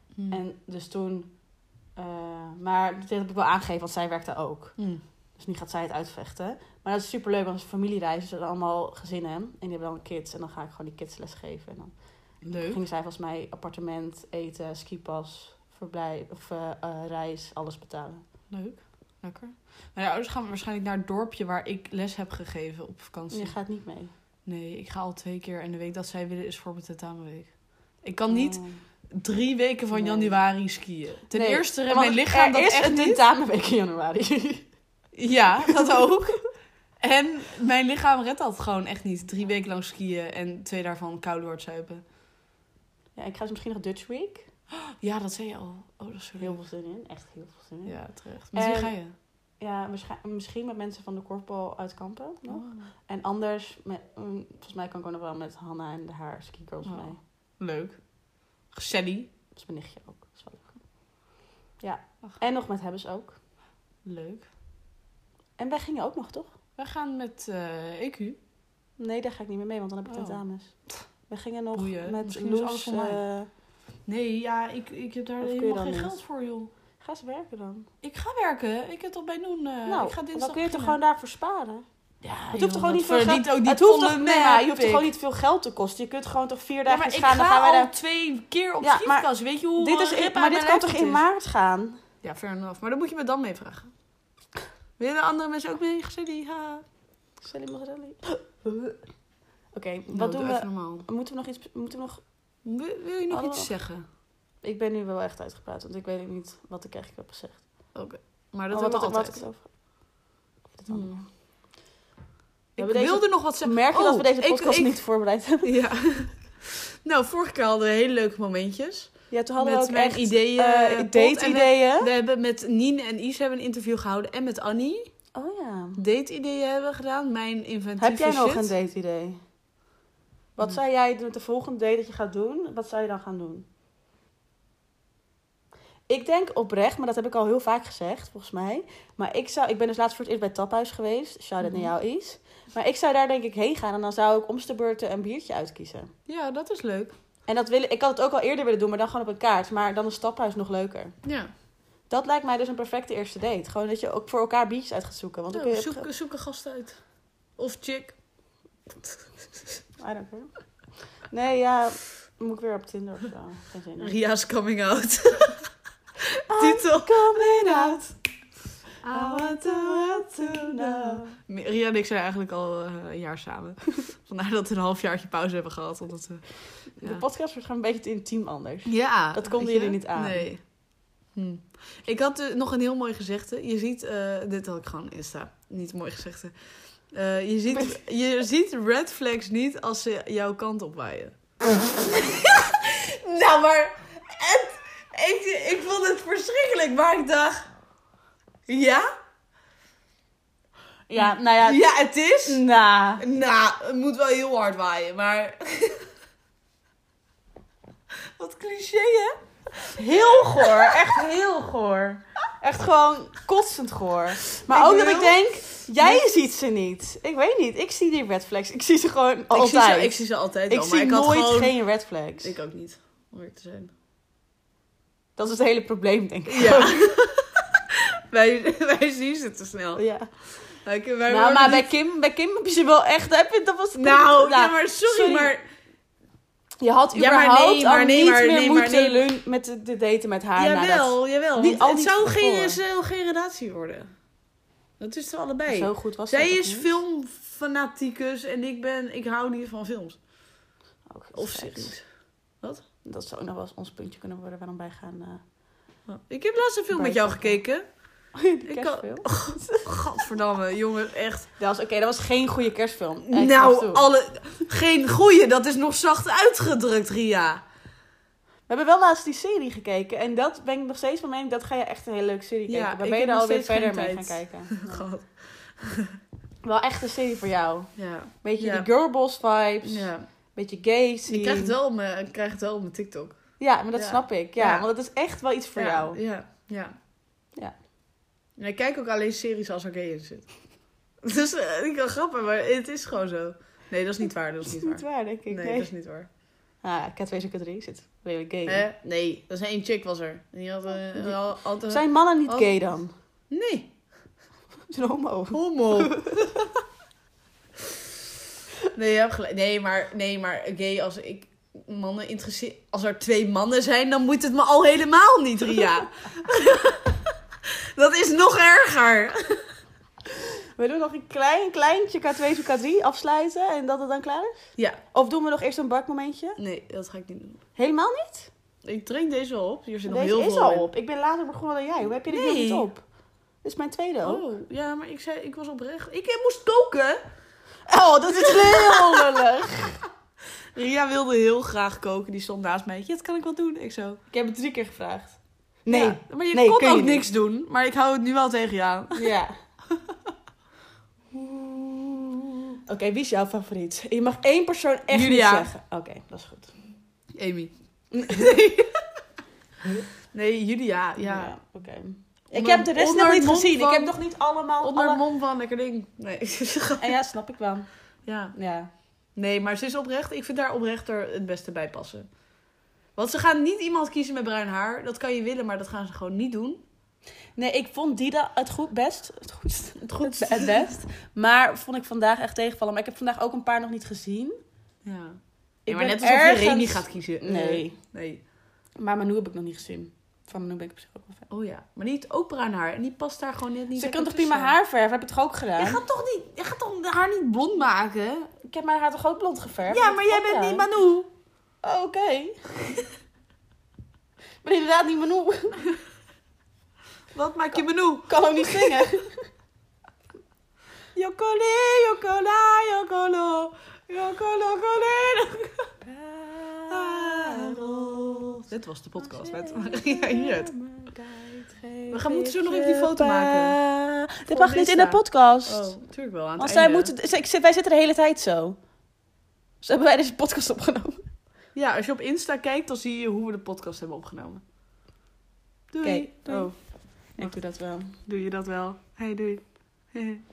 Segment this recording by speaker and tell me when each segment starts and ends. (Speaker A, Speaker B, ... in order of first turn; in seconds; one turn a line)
Speaker A: 0.1-0.4
Speaker B: 0.3-1.4
Speaker B: 2.0-4.8
Speaker A: 4.8-5.0
Speaker B: 5.4-18.2
Speaker A: 12.4-12.8
Speaker A: 18.5-23.6
Speaker B: 23.3-24.1
Speaker A: 24.4-28.6
Speaker B: 28.3-28.8
Speaker A: 29.1-33.2
Speaker B: 29.9-30.4
Speaker B: 31.3-34.7
Speaker A: 35.1-36.4
Speaker A: 37.0-42.0
Speaker B: 43.1-44.5
Speaker A: 44.7-46.6
Speaker B: 46.4-49.0
Speaker A: 47.9-49.1
Speaker B: 49.6-57.2
Speaker A: 52.5-52.9
Speaker A: 56.9-58.0
Speaker A: 58.7-59.3
Speaker B: 59.5-60.8
Speaker B: 61.8-63.4
Speaker A: 64.0-64.5
Speaker B: 65.6-66.5
Speaker A: 66.8-68.4
Speaker B: 69.0-73.5
Speaker A: 70.1-70.4
Speaker A: 71.7-73.2
Speaker A: 74.1-76.7
Speaker B: 75.4-76.2
Speaker B: 77.0-77.9
Speaker A: 78.0-81.0
Speaker B: 79.9-81.8
Speaker A: 82.2-85.1
Speaker B: 82.5-87.9
Speaker A: 86.9-91.2
Speaker B: 88.8-92.0
Speaker A: 92.2-93.9
Speaker A: 95.0-96.8
Speaker B: 97.4-99.0
Speaker B: 99.7-102.2
Speaker A: 100.1-101.1
Speaker A: 102.6-104.0
Speaker B: 103.3-103.7
Speaker B: 104.6-107.9
Speaker A: 107.9-109.4
Speaker B: 108.7-109.7
Speaker B: 110.7-111.2
Speaker A: 110.9-111.2
Speaker A: 112.8-115.0
Speaker B: 112.8-115.7
Speaker A: 115.6-125.1
Speaker B: 119.3-122.1
Speaker B: 125.3-126.0
Speaker A: 126.0-128.7
Speaker B: 128.0-129.4
Speaker B: 130.6-133.7
Speaker B: 136.1-146.1
Speaker A: 141.6-141.9
Speaker A: 146.3-147.1
Speaker B: 147.5-151.2
Speaker A: 151.2-151.5
Speaker B: 152.1-156.1
Speaker A: 155.5-157.0
Speaker A: 157.6-158.2
Speaker B: 160.0-160.5
Speaker B: 161.3-164.2
Speaker A: 164.0-165.7
Speaker A: 166.2-168.1
Speaker B: 166.5-168.1
Speaker A: 169.0-177.2
Speaker B: 169.1-171.4
Speaker B: 177.0-180.5
Speaker A: 178.8-180.6
Speaker A: 181.3-191.3
Speaker B: 187.7-188.0
Speaker A: 191.9-197.7
Speaker A: 198.7-199.1
Speaker B: 201.1-201.8
Speaker A: 201.2-202.6
Speaker B: 202.4-203.2
Speaker A: 203.2-206.1
Speaker A: 208.2-209.4
Speaker A: 209.9-211.2
Speaker B: 210.0-222.5
Speaker A: 214.7-216.2
Speaker A: 219.5-221.8
Speaker A: 222.4-223.9
Speaker B: 225.4-227.2
Speaker A: 226.5-230.1
Speaker B: 229.9-230.3
Speaker A: 230.8-231.9
Speaker B: 231.3-235.5
Speaker A: 233.9-235.6
Speaker B: 236.8-242.8
Speaker A: 237.1-239.3
Speaker A: 240.6-244.1
Speaker A: 245.0-250.2
Speaker B: 245.7-246.9
Speaker B: 251.1-252.0
Speaker A: 251.3-252.0
Speaker B: 253.0-255.4
Speaker A: 256.1-257.9
Speaker B: 256.9-257.6
Speaker B: 258.4-259.9
Speaker A: 258.7-261.5
Speaker B: 261.6-264.0
Speaker A: 263.3-267.6
Speaker B: 268.7-275.1
Speaker A: 272.7-276.2
Speaker B: 276.6-281.7
Speaker A: 278.0-278.9
Speaker A: 279.8-280.3
Speaker A: 281.3-284.9
Speaker B: 283.6-286.2
Speaker A: 285.8-286.9
Speaker A: 288.6-290.5
Speaker A: 291.2-296.3
Speaker B: 294.7-295.9
Speaker B: 296.8-298.9
Speaker A: 298.7-302.7
Speaker B: 301.9-303.1
Speaker A: 303.5-303.9
Speaker B: 304.9-306.4
Speaker A: 305.5-306.5
Speaker A: 308.9-317.4
Speaker A: 317.9-319.7
Speaker B: 320.8-326.6
Speaker A: 326.6-327.6
Speaker B: 327.8-328.5
Speaker A: 328.8-330.9
Speaker B: 330.1-333.0
Speaker A: 332.3-332.9
Speaker B: 333.6-334.4
Speaker A: 334.2-337.2
Speaker B: 337.9-340.0
Speaker A: 338.3-339.5
Speaker A: 340.8-344.2
Speaker B: 344.3-347.2
Speaker A: 345.9-349.3
Speaker B: 349.1-349.5
Speaker A: 351.3-352.5
Speaker B: 352.9-356.7
Speaker A: 355.1-355.7
Speaker A: 357.4-358.9
Speaker A: 360.3-361.5
Speaker B: 361.2-365.2
Speaker A: 362.5-364.2
Speaker A: 364.8-367.2
Speaker B: 367.0-367.9
Speaker A: 368.2-368.6
Speaker B: 368.5-368.9
Speaker A: 369.3-372.4
Speaker A: 373.1-376.8
Speaker B: 377.6-384.6
Speaker A: 380.0-381.0
Speaker A: 385.0-388.4
Speaker B: 385.9-388.0
Speaker B: 389.0-391.5
Speaker A: 391.5-394.7
Speaker B: 394.0-396.0
Speaker A: 395.8-398.5
Speaker B: 398.6-400.9
Speaker A: 399.9-401.3
Speaker B: 401.8-402.6
Speaker B: 404.6-405.8
Speaker A: 407.3-409.2
Speaker B: 408.3-409.4
Speaker A: 411.1-415.9
Speaker B: 416.0-418.4
Speaker A: 416.9-420.7
Speaker B: 419.2-426.0
Speaker A: 422.1-423.8
Speaker A: 424.5-427.1
Speaker B: 426.6-428.9
Speaker B: 429.8-431.2
Speaker A: 431.8-434.6
Speaker A: 435.9-436.7
Speaker B: 436.0-438.2
Speaker A: 438.1-440.4